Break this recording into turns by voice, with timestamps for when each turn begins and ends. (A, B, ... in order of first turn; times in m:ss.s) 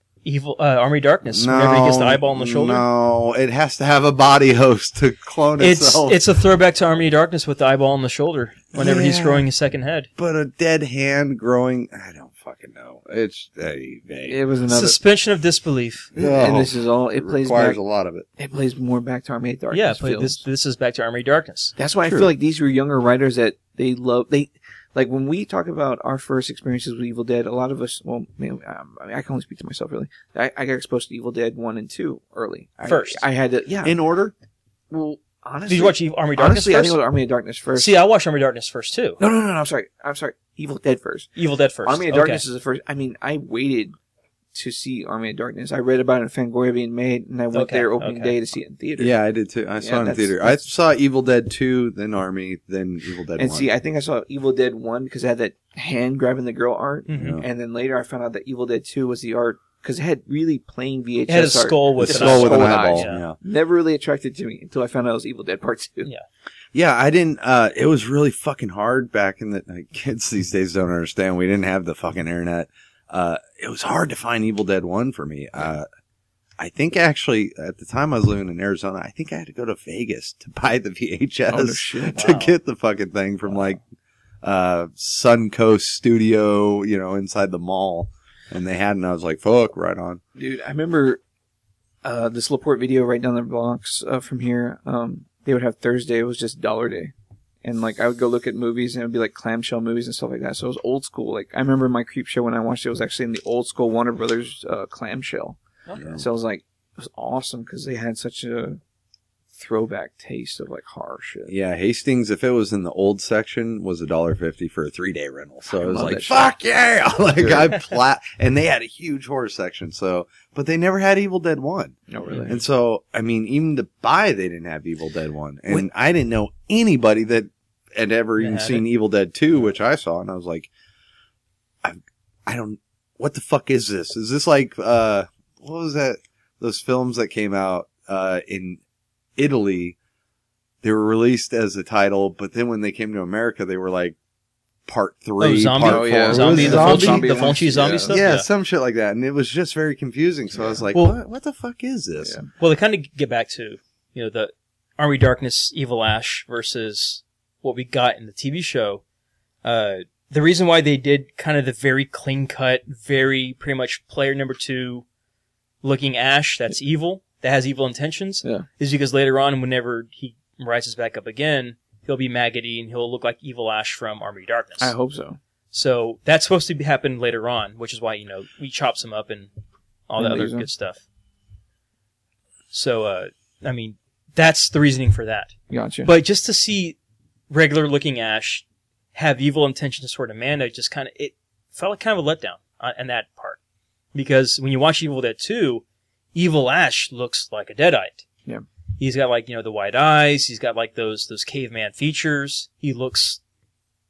0:00.2-0:02.8 A
0:01.2-0:06.2 B
0:05.6-0:10.1 A
0:08.7-0:09.4 B
0:10.2-0:14.4 B
0:14.2-0:15.0 C
0:14.7-0:16.1 A
0:16.2-0:17.8 C
0:16.2-0:18.2 B
0:18.4-0:20.4 C
0:19.7-0:21.7 A
0:21.8-0:34.0 C
0:22.0-0:22.3 B
0:32.8-0:33.2 A
0:33.8-0:34.3 B
0:34.9-0:37.9 C
0:35.7-0:37.0 A
0:37.8-0:39.2 A
0:39.2-0:41.3 C
0:41.4-0:42.4 A
0:41.8-0:44.0 C
0:44.5-0:49.1 C
0:47.5-0:48.4 A
0:49.0-0:53.7 B
0:49.8-0:50.6 C
0:53.4-1:06.1 C
0:57.1-0:57.4 A
0:57.1-0:57.4 B
1:01.3-1:03.2 A
1:02.0-1:03.4 B
1:06.7-1:15.8 B
1:16.6-1:23.8 B
1:21.5-1:22.2 C
1:22.2-1:22.5 A
1:24.4-1:30.2 B
1:30.4-1:31.2 C
1:32.0-1:45.6 C
1:45.9-1:46.1 A
1:46.0-1:46.2 B
1:46.1-1:48.8 C
1:49.5-1:51.5 C
1:51.5-2:10.7 B
1:55.7-1:56.6 C
1:57.4-1:57.6 C
2:02.1-2:02.6 C
2:08.4-2:08.8 A
2:11.8-2:18.8 B
2:19.4-2:20.0 B
2:20.8-2:24.2 B
2:24.8-2:32.4 B
2:25.4-2:28.4 A
2:25.8-2:28.2 C
2:32.2-2:32.5 C
2:32.6-2:39.0 A
2:39.6-2:45.0 A
2:45.8-2:54.9 A
2:54.8-2:55.4 C
2:55.7-2:59.5 A
3:00.1-3:01.0 A
3:00.2-3:00.7 C
3:02.7-3:07.0 A
3:05.7-3:06.1 C
3:07.5-3:08.6 A
3:09.1-3:13.6 A
3:14.1-3:18.2 A
3:19.0-3:23.4 A